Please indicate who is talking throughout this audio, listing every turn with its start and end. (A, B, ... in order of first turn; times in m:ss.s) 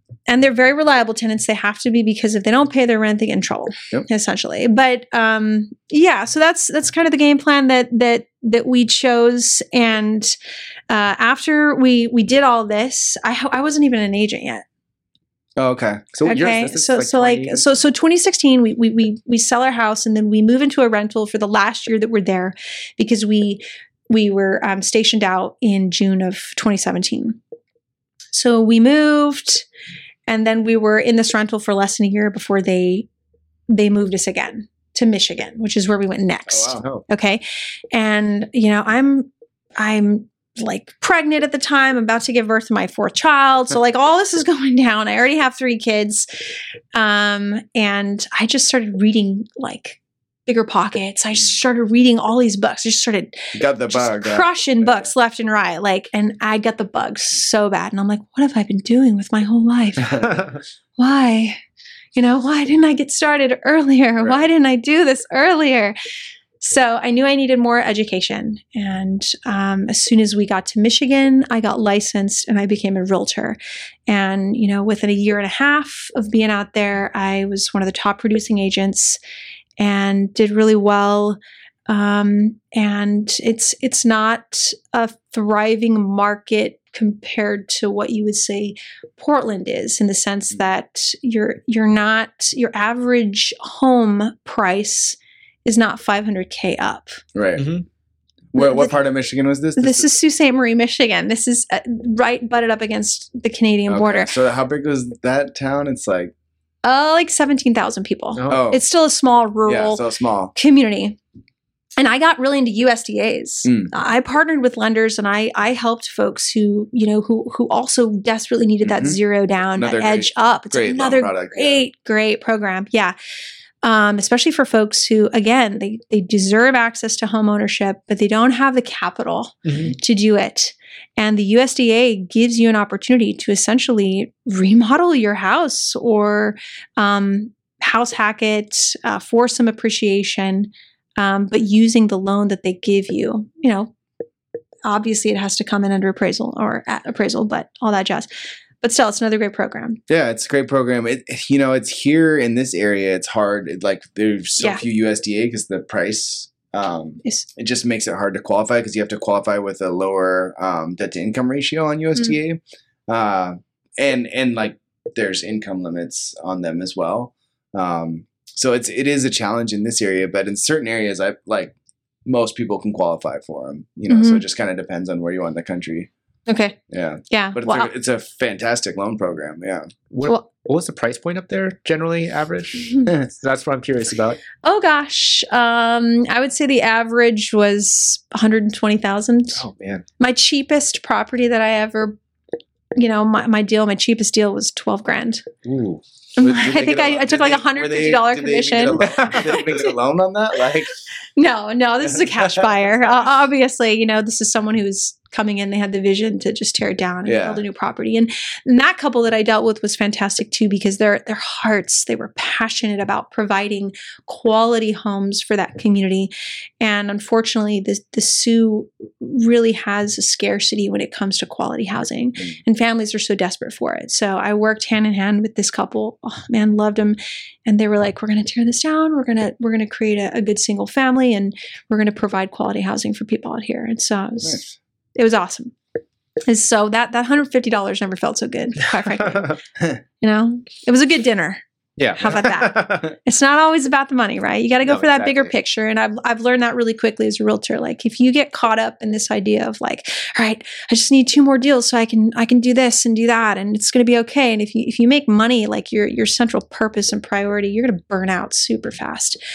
0:00.3-0:10.3 A
0:10.9-0:14.6 A
0:15.6-0:16.1 B
0:16.1-0:17.6 C
0:16.2-0:27.4 A
0:28.3-0:29.6 A
0:30.3-0:33.1 A
0:33.7-0:46.3 A
0:36.5-0:36.8 B
0:46.9-1:00.4 A
0:53.5-0:55.1 B
1:00.2-1:00.5 C
1:01.0-1:01.6 A
1:02.1-1:06.0 A
1:04.2-1:04.5 B
1:06.6-1:19.2 A
1:19.8-1:37.2 A
1:37.3-1:37.7 B
1:37.6-1:37.8 C
1:38.5-1:40.1 B
1:38.6-1:38.9 A
1:39.8-1:44.3 A
1:43.9-1:46.3 B
1:46.8-1:50.0 A
1:48.4-1:48.6 C
1:48.5-1:48.8 B
1:49.7-1:50.5 B
1:50.5-1:51.2 A
1:52.0-2:03.1 A
1:53.6-1:53.9 B
1:58.8-1:59.2 B
1:59.8-2:01.8 B
2:03.8-2:23.9 A
2:09.6-2:09.9 C
2:24.8-2:28.3 A
2:28.8-2:30.0 A
2:30.1-2:51.7 B
2:52.2-2:56.1 B
2:54.1-2:54.4 A
2:56.5-2:56.8 A
2:56.9-2:59.9 B
2:57.3-2:57.9 A
3:00.1-3:04.4 C
3:04.6-3:09.6 A
3:09.5-3:10.0 C
3:10.2-3:12.2 A
3:12.9-3:15.5 A
3:15.6-3:16.0 C
3:16.4-3:19.8 A
3:16.4-3:20.9 B
3:19.0-3:19.6 C
3:21.4-3:54.6 A
3:27.2-3:27.6 B
3:54.4-3:54.7 B
3:55.2-3:55.7 A
3:56.4-3:59.6 A
3:59.2-3:59.5 C
4:00.2-4:01.6 A
4:02.0-4:03.1 C
4:02.1-4:19.4 A
4:04.8-4:05.5 C